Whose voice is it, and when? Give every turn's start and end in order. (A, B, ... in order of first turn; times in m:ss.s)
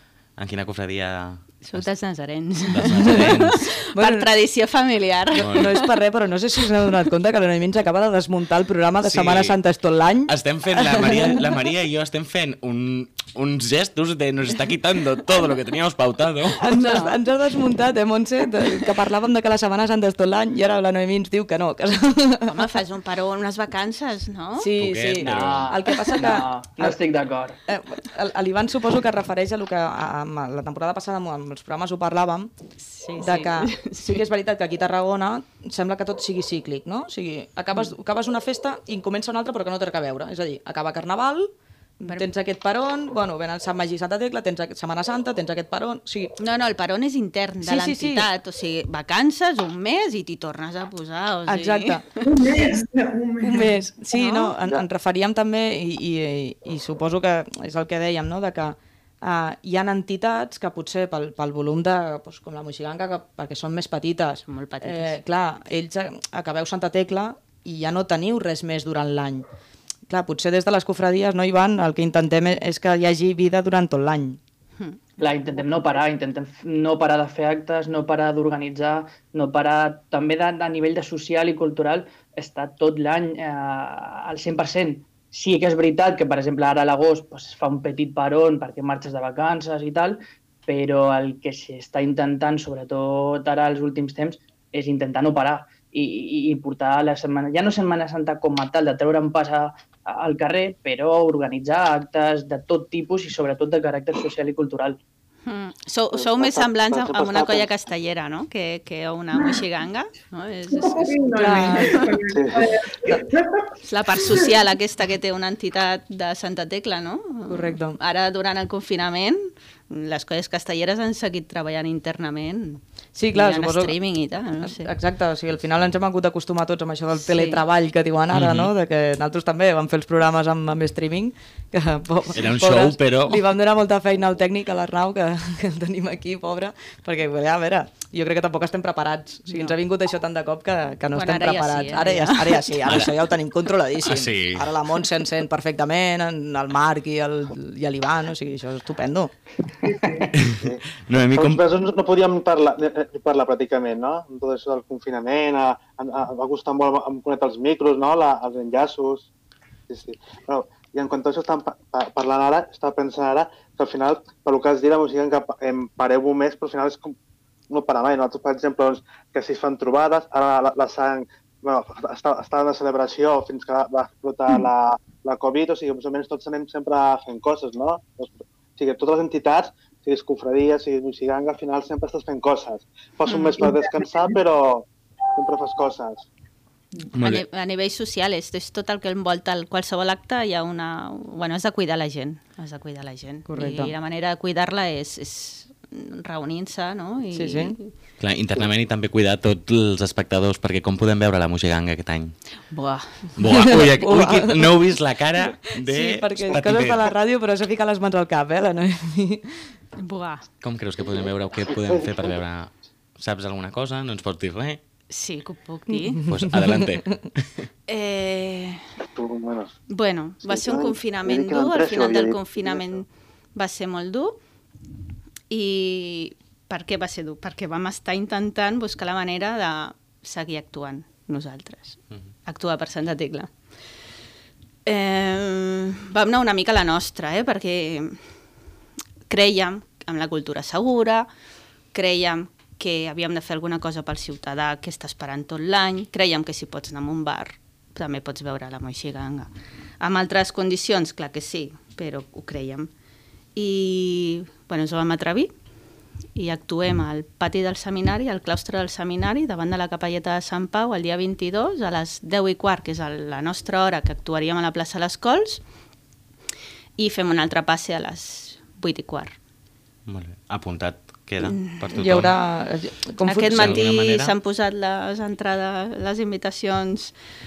0:00.4-0:02.0 A
0:01.6-0:05.9 B
0:02.7-0:03.6 A
0:04.0-0:04.3 C
0:05.3-0:11.4 C
0:05.4-0:05.7 A
0:09.0-0:09.6 A
0:10.3-0:16.6 A
0:16.6-0:22.7 C
0:16.8-0:17.2 B
0:22.5-0:24.7 B
0:24.6-0:27.0 C
0:24.8-0:25.8 A
0:25.0-0:27.6 D
0:27.7-0:32.5 C
0:32.8-0:34.2 B
0:33.2-0:46.3 C
0:46.4-0:52.3 B
0:47.6-0:48.2 C
0:51.5-0:52.0 C
0:52.2-0:54.8 E
0:53.4-1:09.4 C
1:04.5-1:05.2 B
1:10.1-1:14.4 C
1:14.8-1:15.2 B
1:15.2-1:45.0 D
1:45.5-1:52.2 B
1:46.1-1:47.7 F
1:49.3-1:49.6 E
1:50.7-1:54.5 E
1:51.4-1:52.0 C
1:52.3-1:52.7 F
1:53.8-2:02.8 B
1:57.5-1:58.0 C
2:03.2-2:04.0 C
2:03.3-2:04.9 B
2:04.6-2:29.3 C
2:07.2-2:07.6 B
2:08.3-2:08.7 A
2:12.3-2:13.4 A
2:21.1-2:23.0 B
2:24.0-2:24.7 A
2:29.8-2:30.3 E
2:30.4-2:31.6 A
2:31.3-2:39.3 F
2:39.9-2:47.2 F
2:47.7-3:06.3 F
3:03.3-3:03.5 B
3:03.6-3:04.4 E
3:07.2-3:07.4 A
3:07.2-3:17.9 B
3:13.5-3:13.9 C
3:17.3-3:17.8 C
3:18.2-3:22.4 A
3:22.7-3:23.4 B
3:23.4-3:27.1 A
3:23.5-3:24.9 C
3:25.8-3:29.7 C
3:30.0-3:30.5 B
3:30.6-3:34.8 A
3:31.7-3:32.4 F
3:35.1-3:36.3 B
3:35.9-3:37.0 C
3:36.3-3:37.6 A
3:37.9-3:38.9 B
3:39.1-3:39.7 F
3:39.9-3:44.4 B
3:40.4-3:43.0 F
3:45.5-3:53.7 B
3:54.9-3:58.2 B
3:59.3-4:01.3 B
4:01.9-4:09.5 B
4:10.0-4:12.9 B
4:13.6-4:15.5 B
4:16.4-4:25.6 B
4:27.0-4:29.4 B
4:30.1-4:32.3 A
4:31.4-4:31.8 B
4:31.9-4:33.8 C
4:33.2-4:37.2 B
4:33.5-4:34.3 A